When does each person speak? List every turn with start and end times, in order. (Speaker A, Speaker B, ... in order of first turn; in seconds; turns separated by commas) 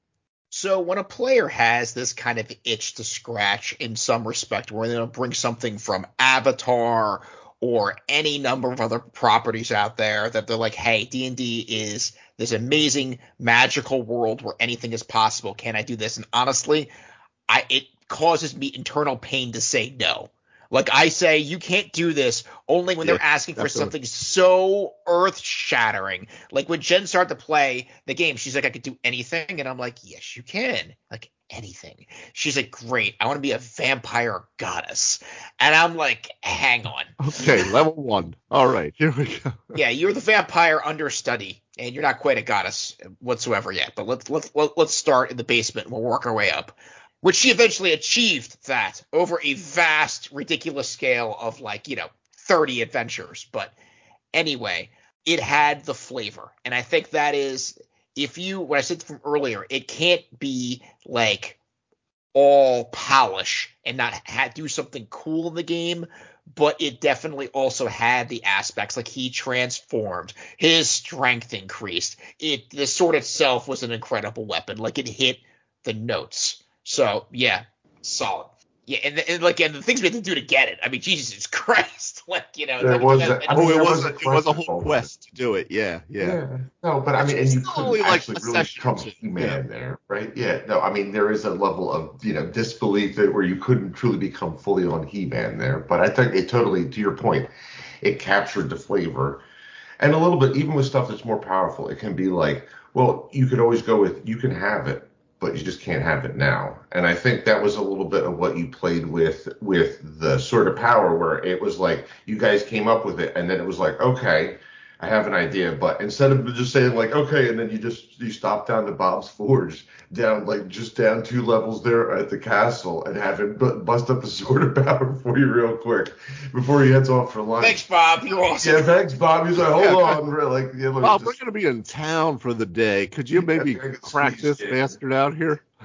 Speaker A: 0.5-16.9, Speaker A: 17.5-37.7, Speaker B: 23.0-23.9, Speaker B: 37.2-39.7, Speaker A: 39.7-53.7, Speaker A: 54.3-61.6, Speaker A: 62.3-83.9, Speaker C: 82.8-85.1, Speaker B: 83.5-86.4, Speaker C: 86.2-97.5, Speaker B: 87.2-89.6, Speaker C: 98.0-99.4, Speaker C: 100.0-127.8, Speaker A: 127.6-128.9, Speaker C: 128.6-131.4, Speaker B: 129.8-130.2, Speaker B: 131.0-135.6, Speaker C: 133.3-134.8